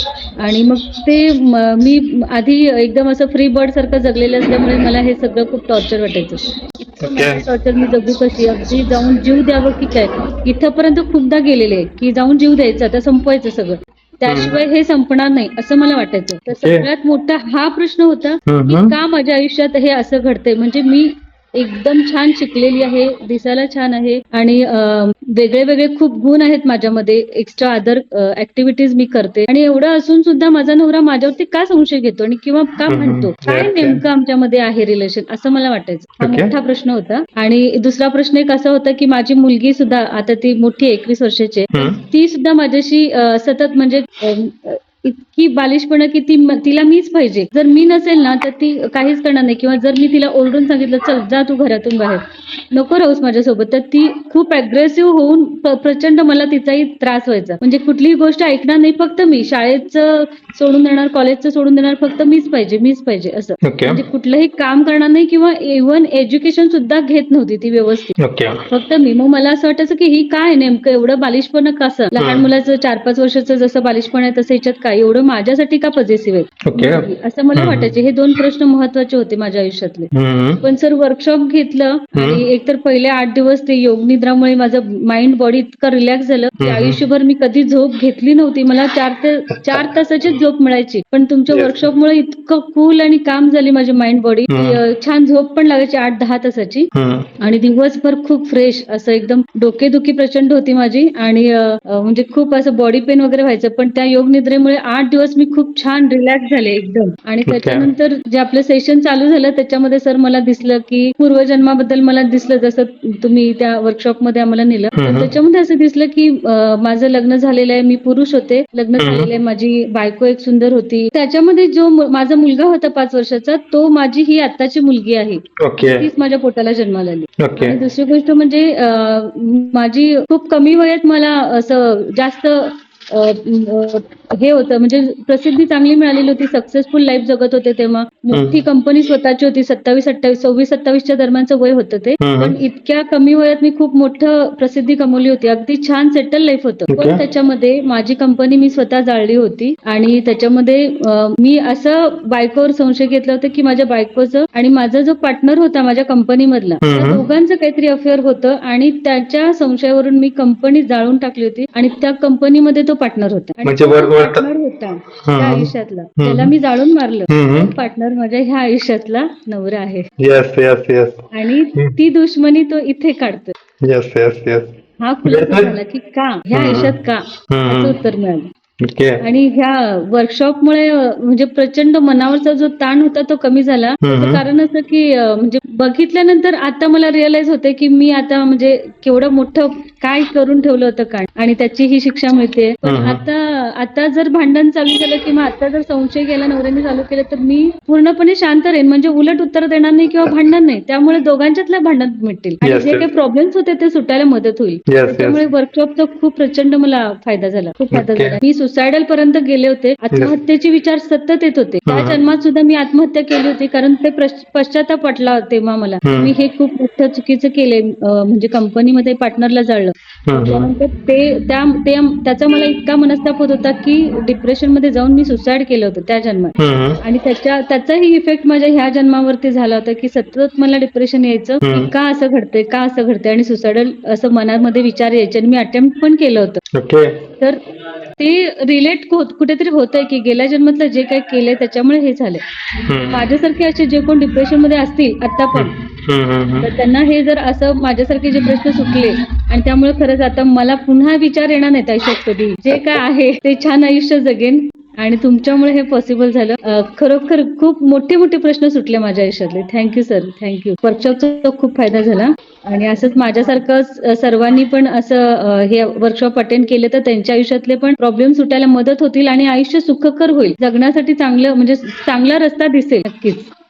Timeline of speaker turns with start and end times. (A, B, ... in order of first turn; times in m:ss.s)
0:00.4-1:08.1 A
0:07.0-0:07.4 B
0:14.3-0:14.6 B
0:16.5-0:16.9 B
0:18.5-0:19.0 B
0:32.9-0:34.0 B
0:36.2-0:36.5 B
1:03.6-1:04.0 B
1:08.2-1:08.6 B
1:08.7-1:20.1 A
1:12.1-1:12.5 B
1:16.6-1:17.9 B
1:20.1-1:20.6 B
1:20.6-2:50.1 A
1:22.1-1:22.4 B
1:26.6-1:27.0 B
1:31.5-1:31.9 B
1:34.5-1:34.8 B
1:36.9-1:37.3 B
1:47.4-1:47.9 B
1:55.0-1:55.3 B
1:59.0-1:59.3 B
2:05.6-2:06.1 B
2:07.4-2:07.8 B
2:18.3-2:18.6 B
2:22.2-2:22.6 B
2:26.9-2:27.2 B
2:36.8-2:37.2 B
2:43.6-2:44.4 B
2:45.2-2:46.5 B
2:47.3-2:47.7 B
2:50.2-2:52.0 B
2:51.3-2:53.5 A
2:53.8-2:55.7 B
2:55.0-2:58.5 A
2:56.5-2:57.0 B
2:57.5-2:58.0 B
2:58.8-2:59.2 B
2:59.2-3:56.6 A
3:04.0-3:04.4 B
3:12.8-3:13.2 B
3:22.6-3:23.1 B
3:24.9-3:25.4 B
3:27.9-3:28.4 B
3:31.8-3:32.2 B
3:36.0-3:36.3 B
3:40.2-3:40.7 B
3:46.6-3:47.0 B
3:51.6-3:51.9 B
3:56.7-3:57.2 B
3:58.2-4:02.4 A
4:02.8-4:03.2 B
4:03.1-4:05.7 A
4:05.5-4:06.7 B
4:06.6-4:33.5 A
4:12.7-4:13.0 B